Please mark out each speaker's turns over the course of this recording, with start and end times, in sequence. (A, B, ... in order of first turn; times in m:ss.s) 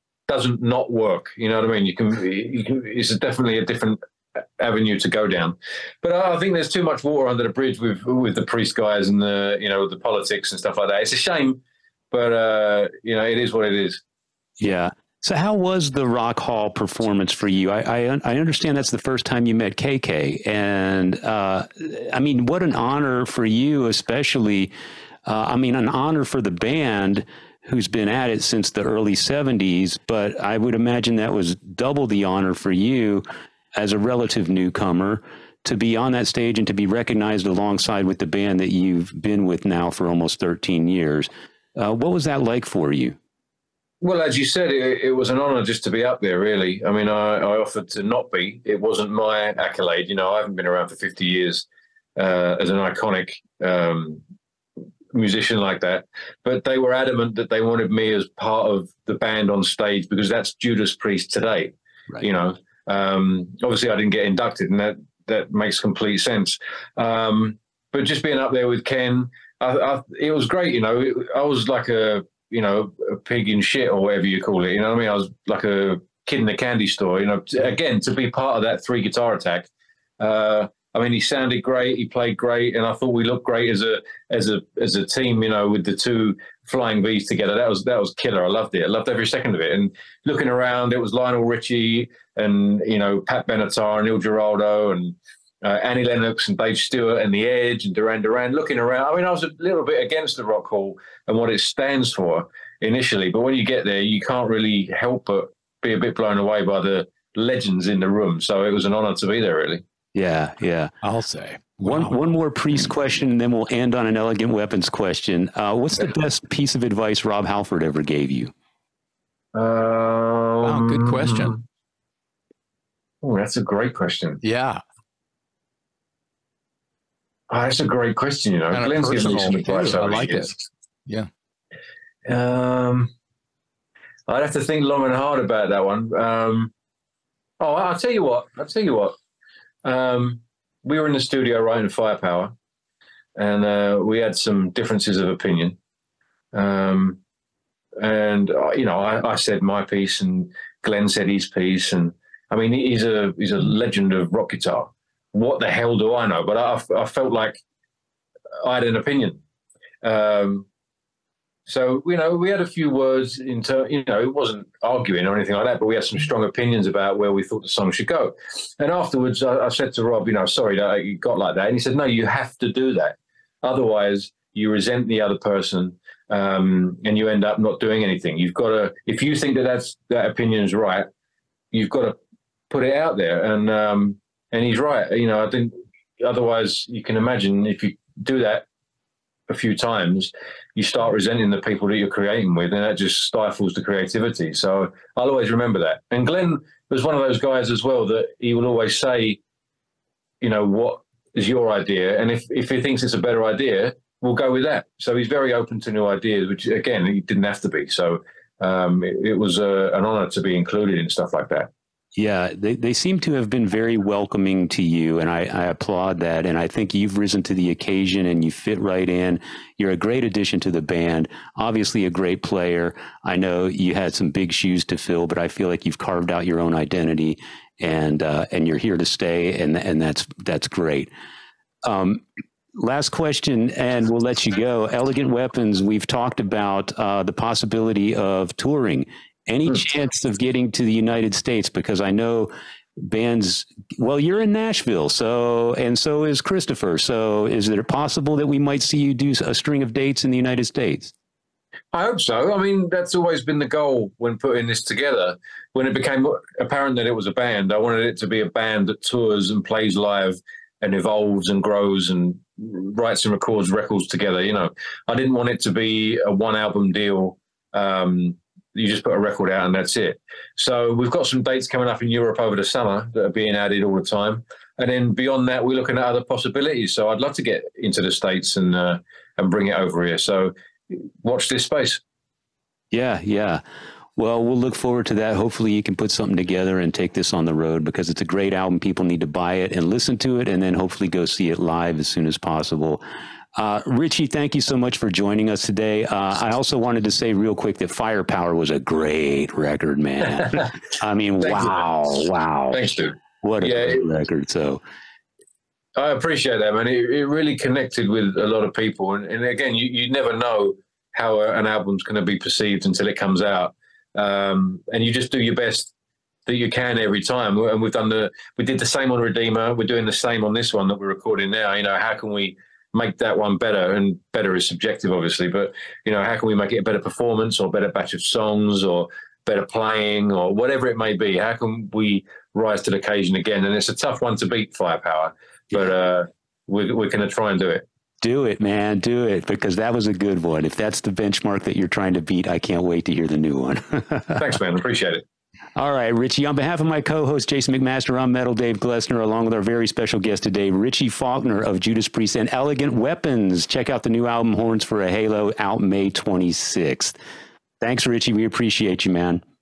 0:00.3-0:04.0 A
0:04.6-0:14.0 A
0:14.6-0:24.7 B
0:25.2-0:33.2 B
0:33.7-0:43.2 B
0:44.0-0:51.6 A
0:52.2-0:54.2 A
0:55.1-1:19.7 A
1:20.2-1:49.8 A
1:50.1-1:50.9 B
1:51.0-1:52.1 C
1:51.8-1:58.5 B
1:59.5-2:01.6 A
2:00.6-2:01.5 C
2:03.2-2:04.4 A
2:04.4-2:04.8 C
2:07.5-2:10.6 A
2:08.7-2:10.5 C
2:12.2-2:13.1 A
2:14.3-2:16.7 A
2:17.6-2:19.1 A
2:19.8-2:22.5 A
2:23.4-2:25.8 A
2:26.5-2:27.2 A
2:28.0-2:37.6 A
2:38.6-2:39.4 A
2:40.0-2:40.7 A
2:41.7-3:01.1 A
3:01.7-3:02.2 A
3:02.7-3:08.6 A
3:09.5-3:19.4 A
3:20.4-3:31.7 A
3:32.2-3:51.1 B
3:51.8-3:52.2 B
3:52.8-4:11.1 B
4:11.9-4:42.0 A
4:42.9-4:43.6 B
4:44.2-4:53.0 B
4:53.6-5:02.8 B
5:01.4-5:01.8 A
5:02.7-5:04.0 A
5:03.4-5:04.8 B
5:06.0-5:15.9 A
5:16.4-5:37.8 A
5:38.2-5:44.4 B
5:44.4-5:45.2 A
5:45.8-5:57.2 B
5:57.8-5:59.4 B